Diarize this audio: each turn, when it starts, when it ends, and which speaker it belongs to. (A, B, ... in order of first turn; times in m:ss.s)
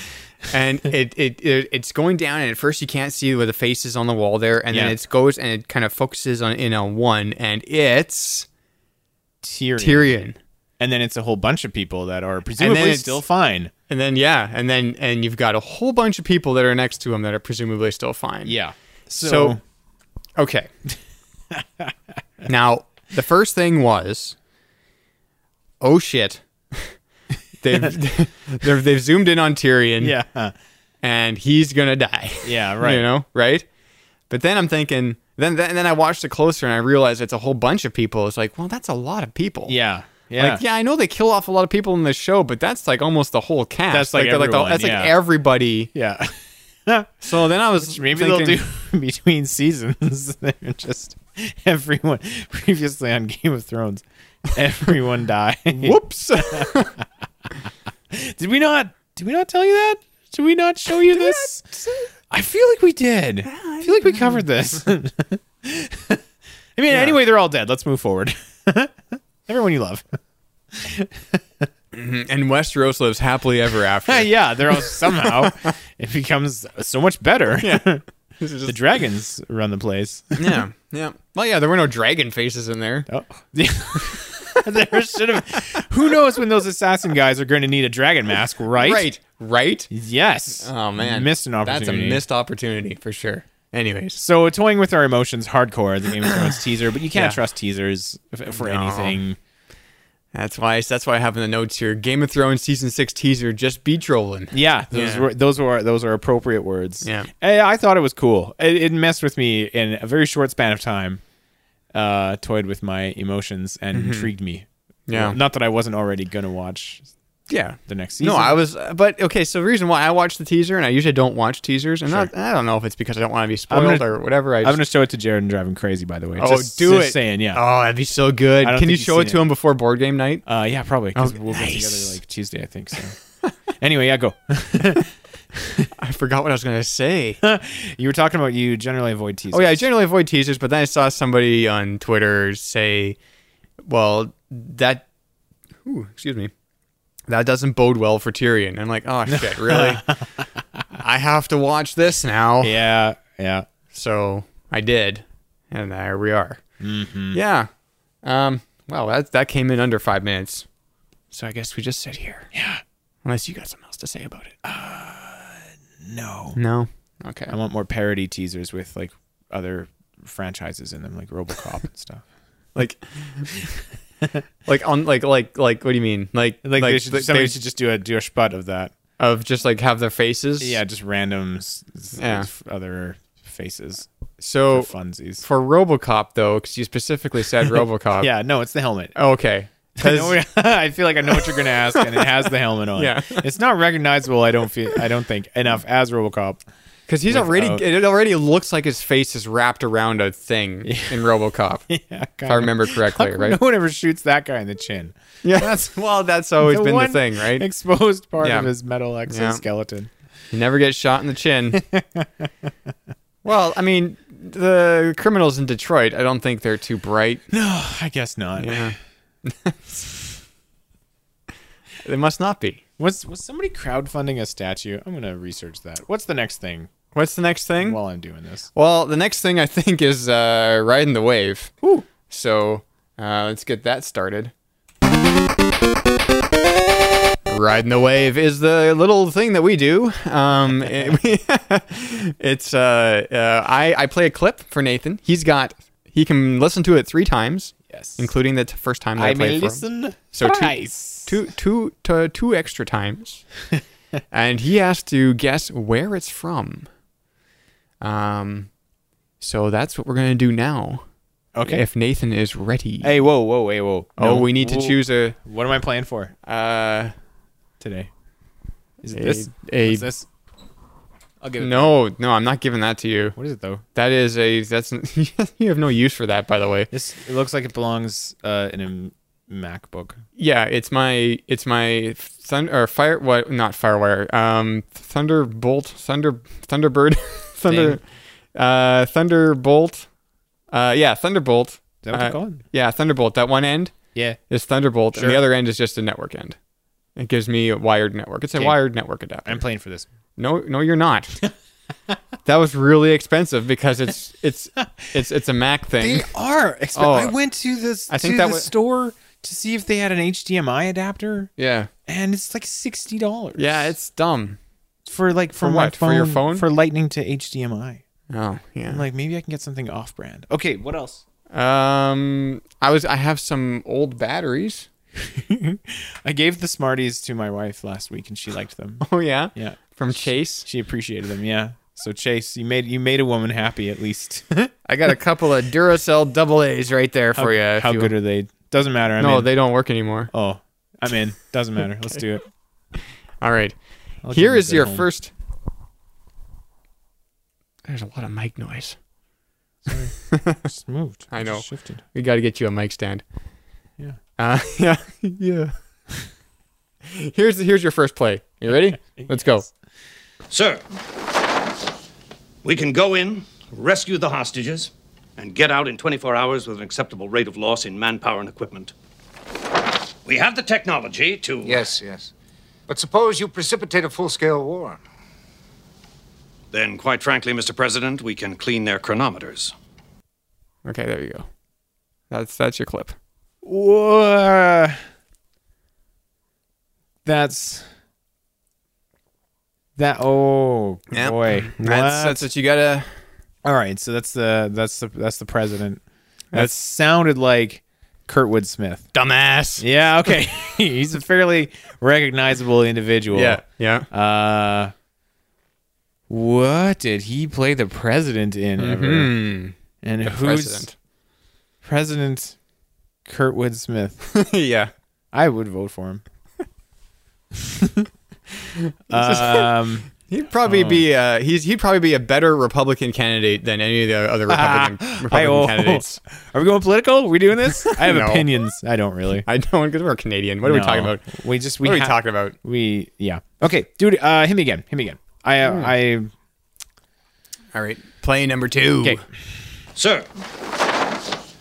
0:00.5-0:08.5 A
0:04.7-0:05.0 B
0:09.4-0:10.1 B
0:09.8-0:10.4 A
0:10.8-0:13.7 B
0:12.6-0:13.2 A
0:13.9-0:18.6 A
0:18.4-0:19.6 B
0:19.2-0:19.6 A
0:20.4-0:20.7 A
0:21.5-0:21.9 B
0:22.4-0:24.4 A
0:25.8-0:26.9 A
0:27.6-0:30.2 A
0:30.0-0:30.5 B
0:31.0-0:33.6 A
0:32.4-0:33.1 B
0:34.3-0:39.8 A
0:39.7-0:40.6 B
0:40.4-0:45.9 A
0:43.9-0:45.1 B
0:45.9-0:56.8 B
0:47.2-0:48.6 A
0:55.8-0:56.9 A
0:58.1-1:01.7 B
1:01.1-1:02.1 A
1:02.3-1:06.2 B
1:03.4-1:04.4 A
1:06.8-1:10.1 B
1:06.9-1:07.2 A
1:10.7-1:11.6 B
1:11.9-1:15.7 A
1:14.1-1:18.0 B
1:17.6-1:17.9 A
1:18.4-1:18.8 A
1:18.6-1:20.6 B
1:20.4-1:23.1 A
1:23.1-1:29.0 B
1:28.8-1:29.9 A
1:29.9-1:32.2 B
1:30.6-1:34.2 A
1:34.2-1:39.4 B
1:37.1-1:37.4 A
1:38.5-1:39.2 A
1:40.3-1:45.3 A
1:44.5-1:51.2 B
1:47.0-1:47.3 A
1:51.9-1:57.1 B
1:53.9-1:54.3 A
1:55.1-1:55.4 A
1:57.5-2:04.8 A
1:57.8-1:58.6 B
2:02.0-2:02.3 B
2:03.7-2:04.1 B
2:04.6-2:07.6 B
2:06.4-2:10.4 A
2:08.6-2:09.4 B
2:10.4-2:13.1 B
2:11.1-2:12.2 A
2:13.8-2:15.0 B
2:16.0-2:17.4 A
2:17.4-2:19.9 B
2:19.5-2:23.2 A
2:23.8-2:25.0 A
2:25.8-2:26.5 A
2:27.3-2:30.1 A
2:29.3-2:30.8 B
2:30.9-2:32.8 A
2:32.6-2:33.7 B
2:33.9-2:36.6 A
2:36.8-2:37.4 B
2:37.3-2:37.7 A
2:38.2-2:40.6 A
2:41.3-2:42.5 A
2:42.5-2:42.8 B
2:43.2-2:44.5 A
2:44.6-2:46.6 B
2:46.6-2:47.5 A
2:47.5-2:52.2 B
2:52.7-2:53.6 A
2:54.6-2:57.6 A
2:56.6-2:58.9 B
2:59.2-3:00.8 A
3:00.6-3:04.1 B
3:02.2-3:02.5 A
3:04.4-3:08.3 A
3:04.7-3:05.4 B
3:08.2-3:09.2 B
3:09.1-3:10.4 A
3:10.0-3:16.6 B
3:11.4-3:13.4 A
3:17.1-3:21.8 A
3:17.3-3:17.8 B
3:20.8-3:21.2 B
3:21.9-3:25.8 B
3:22.4-3:23.6 A
3:25.4-3:27.6 A
3:26.6-3:30.1 B
3:28.4-3:28.7 A
3:29.2-3:29.6 A
3:30.5-3:31.8 A
3:31.7-3:32.5 B
3:33.4-3:37.4 A
3:37.5-3:38.9 B
3:38.6-3:39.8 A
3:42.0-3:42.8 A
3:43.0-3:46.9 B
3:47.1-3:48.0 A
3:47.8-3:48.7 B
3:48.7-3:54.5 A
3:57.5-4:13.4 A
4:07.9-4:08.3 B
4:09.2-4:11.4 B
4:14.3-4:16.9 A
4:18.0-4:18.7 A
4:19.4-4:21.0 A
4:21.5-4:21.8 B
4:21.6-4:23.2 A
4:23.0-4:26.3 B
4:24.2-4:25.4 A
4:26.4-4:27.1 A
4:27.8-4:28.1 B
4:29.0-4:30.3 B
4:29.1-4:30.1 A
4:31.4-4:31.9 B
4:31.6-4:33.4 A
4:33.4-4:33.8 B
4:33.9-4:36.9 A
4:36.9-4:40.2 B
4:40.4-4:50.1 A
4:47.6-4:48.0 B
4:50.7-4:56.6 A
4:52.0-4:52.6 B
4:55.1-4:55.4 B
4:57.2-4:59.6 A
4:58.5-4:58.8 B
4:59.4-5:00.0 B
5:00.4-5:01.4 A
5:02.4-5:06.3 A
5:06.0-5:11.5 B
5:06.9-5:07.3 A
5:08.1-5:08.7 A
5:11.6-5:11.9 A
5:12.1-5:13.9 B
5:13.6-5:14.6 A
5:15.0-5:18.0 B
5:15.6-5:16.7 A
5:18.3-5:19.0 A
5:18.9-5:21.2 B
5:21.5-5:24.9 A
5:25.3-5:34.7 B
5:29.0-5:30.6 A
5:34.8-5:38.1 A
5:37.3-5:39.5 B
5:39.2-5:40.3 A
5:40.3-5:42.4 B
5:43.4-5:43.8 A
5:44.2-5:45.0 B
5:44.3-5:45.3 A
5:47.9-5:49.0 A
5:49.8-5:52.0 B
5:50.3-5:50.6 A
5:51.3-5:53.2 A
5:54.4-5:55.7 A
5:57.0-5:59.7 A
5:58.7-5:59.7 B
6:00.5-6:00.8 C
6:02.6-6:08.9 C
6:10.2-6:11.9 C
6:11.6-6:12.3 D
6:12.9-6:15.0 D
6:16.7-6:19.7 C
6:20.8-6:21.5 A
6:22.3-6:23.2 A
6:23.6-6:25.0 B
6:27.2-6:27.8 B
6:30.0-6:32.5 B
6:31.1-6:33.1 A
6:33.6-6:36.0 B
6:36.5-6:39.1 B
6:39.1-6:39.8 A
6:39.8-6:44.9 B
6:43.3-6:44.1 A
6:46.3-6:49.3 B
6:48.8-6:50.9 A
6:50.0-6:50.9 B
6:51.8-6:52.6 B
6:53.2-6:54.2 B
6:54.3-6:54.9 A
6:55.3-6:56.2 B
6:57.6-6:58.1 B
6:59.1-7:06.2 A
6:59.1-7:00.1 B
7:00.6-7:01.0 B
7:04.5-7:09.5 B
7:07.9-7:08.5 A
7:09.4-7:11.2 A
7:10.6-7:16.3 B
7:11.8-7:12.5 A
7:15.6-7:15.9 A
7:17.7-7:19.2 A
7:20.0-7:20.3 C